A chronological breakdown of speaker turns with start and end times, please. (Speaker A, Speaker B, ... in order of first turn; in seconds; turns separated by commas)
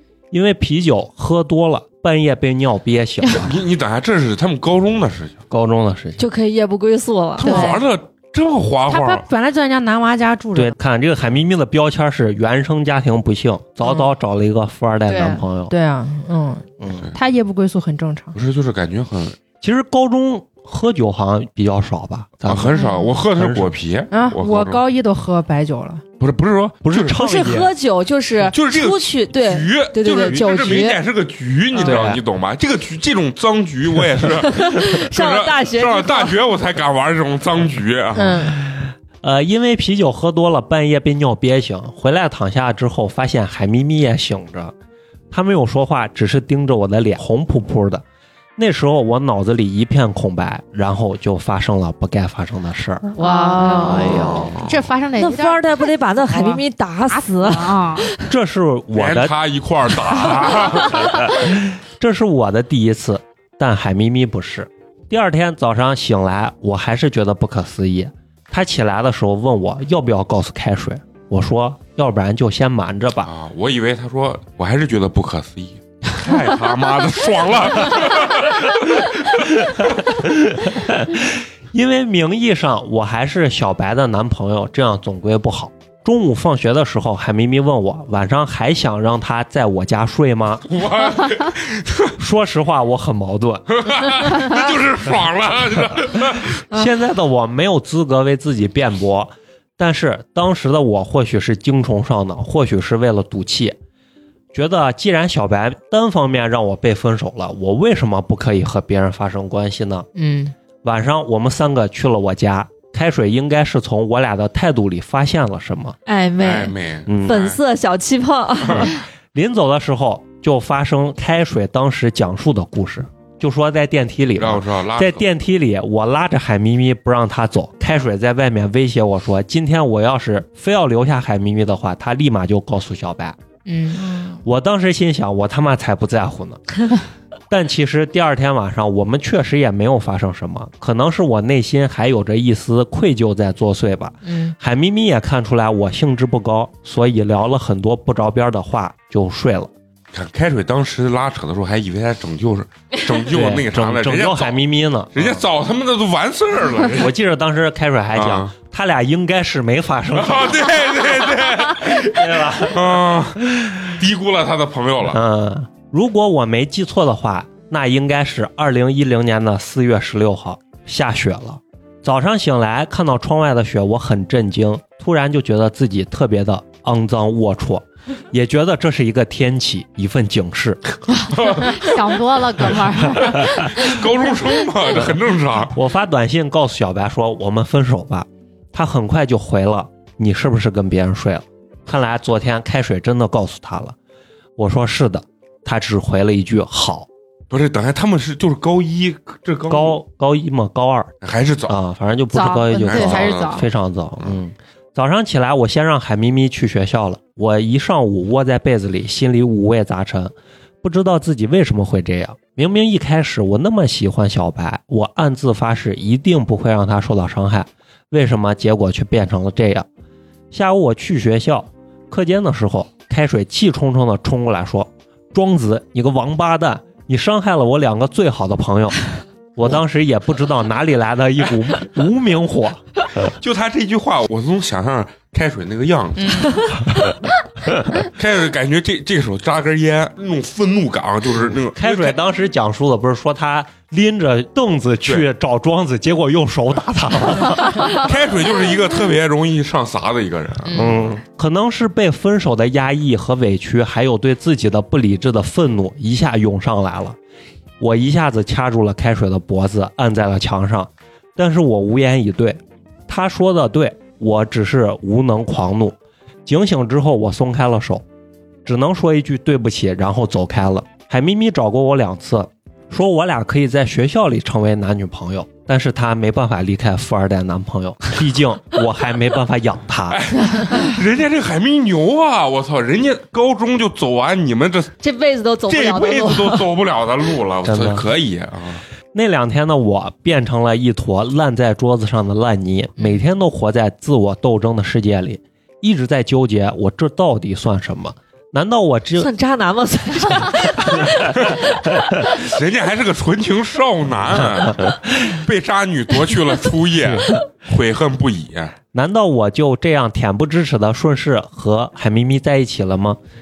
Speaker A: 0.3-3.5, Speaker B: 3.3-5.4, Speaker A: 5.5-6.2, Speaker C: 6.2-7.8, Speaker B: 7.4-9.2, Speaker D: 7.5-7.7, Speaker D: 8.9-10.7, Speaker A: 10.5-15.7, Speaker C: 15.1-15.4, Speaker D: 15.7-18.3, Speaker A: 16.8-17.1, Speaker B: 18.3-19.4, Speaker A: 19.6-22.7, Speaker B: 22.4-24.8, Speaker A: 23.4-23.7, Speaker D: 24.1-26.0, Speaker B: 26.2-27.2, Speaker A: 26.8-27.7, Speaker C: 27.1-31.0, Speaker B: 28.5-38.5, Speaker A: 31.8-32.2, Speaker C: 34.5-36.4, Speaker A: 38.6-44.7, Speaker A: 45.3-48.0, Speaker A: 48.6-53.1, Speaker E: 53.2-58.1, Speaker C: 53.2-54.5, Speaker B: 53.9-54.8, Speaker C: 55.2-58.3, Speaker A: 58.3-59.3, Speaker B: 58.9-61.4, Speaker A: 61.5-73.3, Speaker B: 73.2-79.6, Speaker A: 80.1-90.7, Speaker B: 90.7-92.1, Speaker A: 92.2-93.7, Speaker B: 93.8-96.6, Speaker A: 96.7-103.8, Speaker A: 104.5-110.1, Speaker D: 110.2-110.5, Speaker A: 110.8-116.0, Speaker C: 116.0-119.0, Speaker B: 116.4-117.6, Speaker A: 117.1-117.4, Speaker B: 118.7-118.9, Speaker A: 118.7-133.4, Speaker B: 124.4-125.2, Speaker D: 133.7-134.2, Speaker A: 134.4-136.6, Speaker A: 137.5-149.7, Speaker D: 144.2-144.5, Speaker B: 150.1-154.6, Speaker A: 153.3-155.4, Speaker B: 155.1-157.1, Speaker A: 156.9-160.7, Speaker B: 158.2-158.5, Speaker B: 160.1-165.2, Speaker A: 162.1-163.0, Speaker A: 165.1-180.8, Speaker B: 181.2-182.1, Speaker E: 181.5-183.9, Speaker B: 183.3-185.7, Speaker A: 185.7-193.9, Speaker A: 194.6-197.1, Speaker B: 197.5-200.0, Speaker A: 199.7-201.1, Speaker B: 201.2-201.8, Speaker A: 201.7-219.9, Speaker E: 202.3-203.7, Speaker B: 202.8-203.7, Speaker A: 220.5-229.0, Speaker A: 229.5-232.8, Speaker B: 233.2-236.8, Speaker B: 238.0-242.2, Speaker A: 241.7-247.8, Speaker B: 247.8-251.0, Speaker A: 250.7-257.2, Speaker A: 257.8-268.0, Speaker A: 268.6-280.2, Speaker B: 280.1-284.9, Speaker C: 285.0-286.7, Speaker B: 285.6-288.8, Speaker A: 287.6-288.1, Speaker A: 289.1-299.3, Speaker C: 299.2-301.5, Speaker B: 302.3-308.7, Speaker A: 308.9-313.2